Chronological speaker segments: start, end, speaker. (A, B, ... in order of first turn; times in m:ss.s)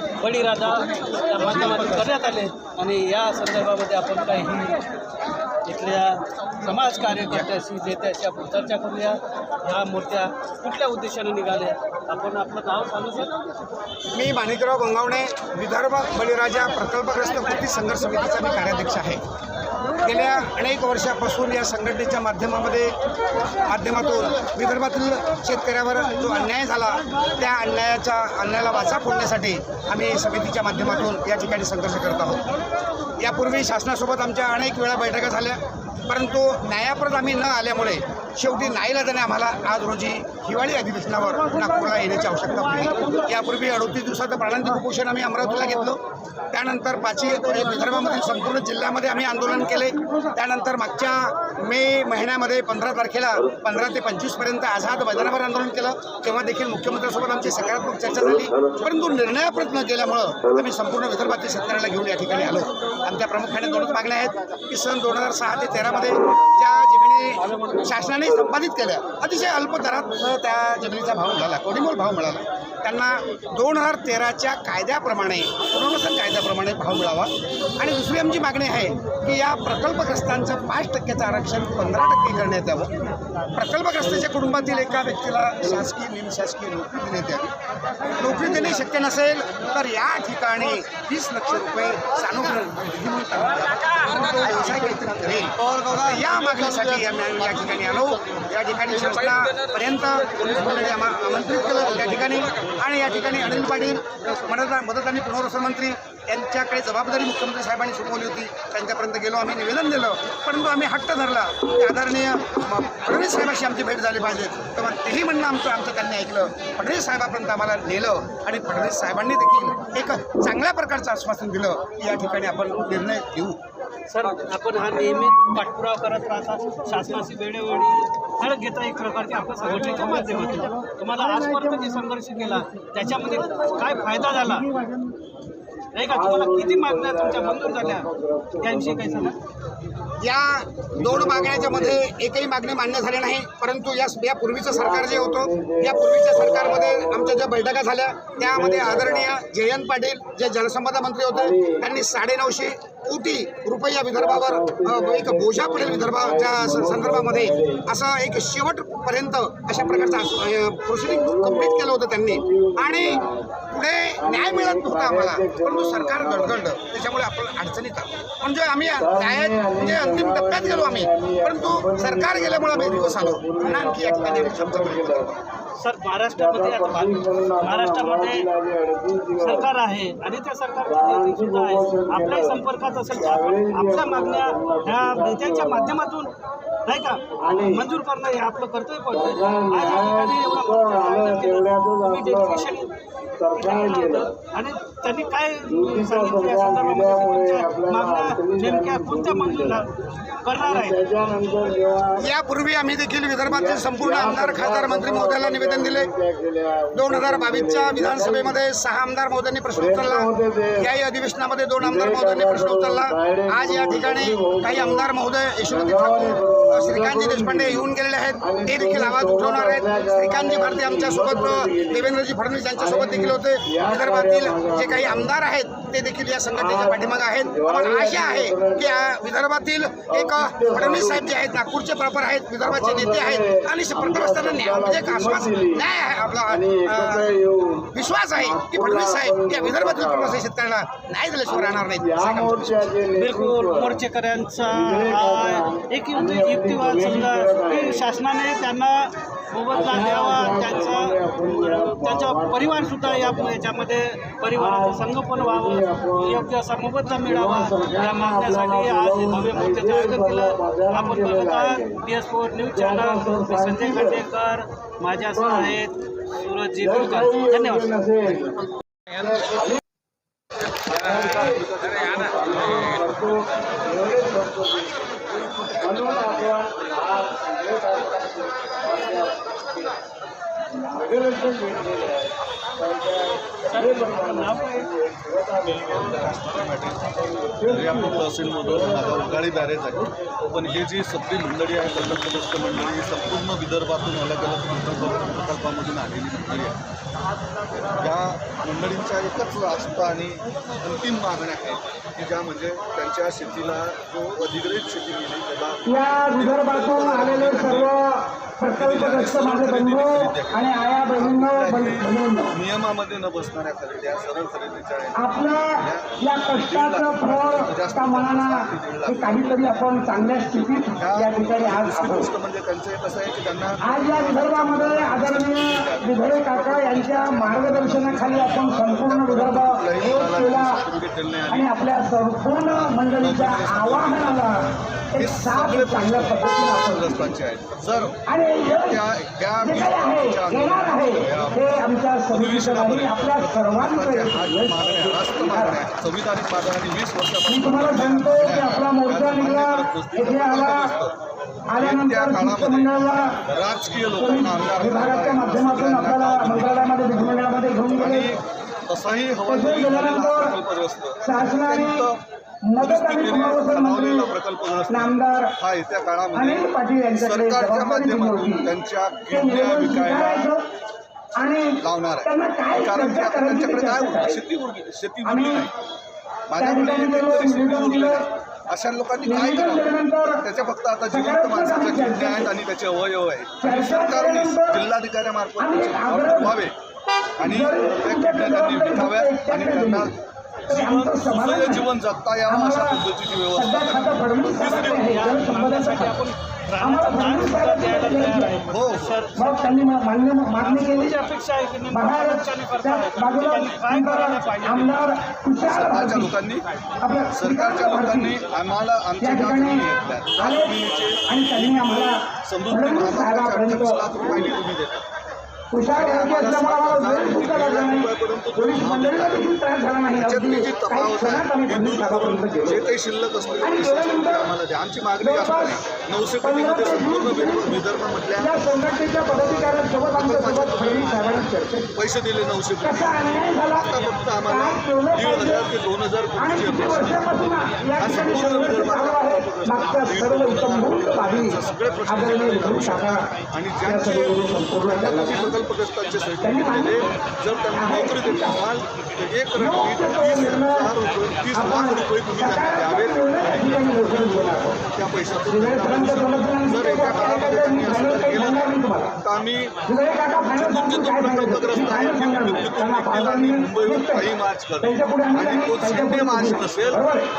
0:00.2-0:04.8 A
0:05.6-0:13.4 A
0:14.2-0:19.2 B
0:19.9-0:23.0 B
0:23.6-0:32.4 B
0:33.2-1:23.0 B
0:41.4-0:42.0 C
0:42.5-0:43.3 C
1:23.6-1:27.5 B
1:28.2-2:03.6 B
1:35.7-1:36.0 D
2:04.1-2:14.8 A
2:16.0-2:18.1 A
2:16.1-2:19.4 E
2:18.6-2:19.4 A
2:20.2-2:55.4 B
2:20.9-2:22.0 E
2:24.6-2:27.5 E
2:28.4-2:29.4 E
2:31.3-2:31.9 E
2:34.1-2:37.9 E
2:39.7-2:40.5 E
2:41.0-2:46.6 E
2:49.0-2:55.4 E
2:55.8-2:58.5 A
2:56.3-2:59.7 E
2:59.4-3:06.3 A
3:00.8-3:06.0 E
3:06.9-3:12.9 A
3:07.4-3:07.9 E
3:09.1-3:14.4 E
3:13.6-3:19.9 A
3:15.7-3:19.9 E
3:20.4-3:21.0 A
3:20.6-3:22.3 E
3:22.2-3:26.1 B
3:23.4-3:28.6 E
3:26.9-3:57.3 B
3:29.7-3:30.9 E
3:31.8-3:35.1 E
3:35.6-3:42.2 E
3:42.8-3:45.4 E
3:46.5-3:49.2 E
3:50.1-3:51.4 E
3:52.6-3:55.9 E
3:56.5-4:00.5 E
3:57.9-4:03.0 B
4:01.4-4:04.0 E
4:03.1-4:28.5 A
4:04.6-4:08.1 E
4:09.7-4:13.7 E
4:14.5-4:16.5 E
4:17.2-4:22.0 E
4:22.7-4:24.2 E
4:25.2-4:25.8 E
4:26.8-4:29.8 E
4:30.9-4:35.2 E
4:35.7-4:40.0 E
4:40.8-4:46.3 E
4:43.7-4:44.9 A
4:45.8-4:47.0 D
4:47.2-4:50.5 E
4:47.6-4:56.8 D
4:57.9-5:07.9 D
5:05.9-5:12.6 C
5:08.7-5:19.7 D
5:15.1-5:22.3 C
5:21.0-5:31.7 D
5:23.8-5:30.8 C
5:31.5-5:37.3 C
5:32.7-5:41.7 D
5:38.3-5:39.0 C
5:39.6-5:45.8 C
5:42.3-5:51.2 D
5:47.5-5:51.0 C
5:51.7-5:53.4 C
5:51.8-6:02.2 D
5:54.2-5:58.3 C
5:59.5-6:00.6 C
6:01.2-6:02.1 C
6:02.7-6:04.3 C
6:02.8-6:10.5 D
6:04.9-6:05.6 C
6:06.3-6:08.7 C
6:09.3-6:10.6 C
6:11.4-6:14.4 C
6:11.8-6:15.7 D
6:15.2-6:15.7 C
6:16.5-6:26.7 D
6:16.5-6:18.3 C
6:19.2-6:20.4 C
6:21.1-6:22.6 C
6:23.6-6:24.8 C
6:25.6-6:26.6 C
6:27.4-6:30.1 C
6:27.4-6:30.2 D
6:30.7-6:35.1 D
6:30.7-6:31.9 C
6:32.5-6:36.2 C
6:34.8-6:39.7 A
6:36.8-6:38.6 C
6:38.7-6:39.2 D
6:39.4-6:41.2 C
6:40.6-6:45.2 A
6:41.9-6:46.4 C
6:45.6-6:46.6 D
6:47.0-6:48.4 C
6:47.3-6:55.1 D
6:49.2-6:54.5 C
6:55.7-7:02.7 C
6:55.9-6:59.5 D
7:00.2-7:08.6 D
7:03.6-7:04.5 C
7:05.2-7:05.9 C
7:06.4-7:07.8 C
7:08.4-7:12.0 C
7:09.3-7:11.4 D
7:12.0-7:34.2 D
7:12.8-7:15.7 C
7:16.4-7:25.4 C
7:26.4-7:27.1 C
7:27.8-7:28.6 C
7:29.6-7:30.9 C
7:31.5-7:34.9 C
7:34.9-7:39.8 D
7:35.5-7:39.2 C
7:39.8-7:44.3 C
7:40.4-7:47.0 D
7:44.8-7:47.3 C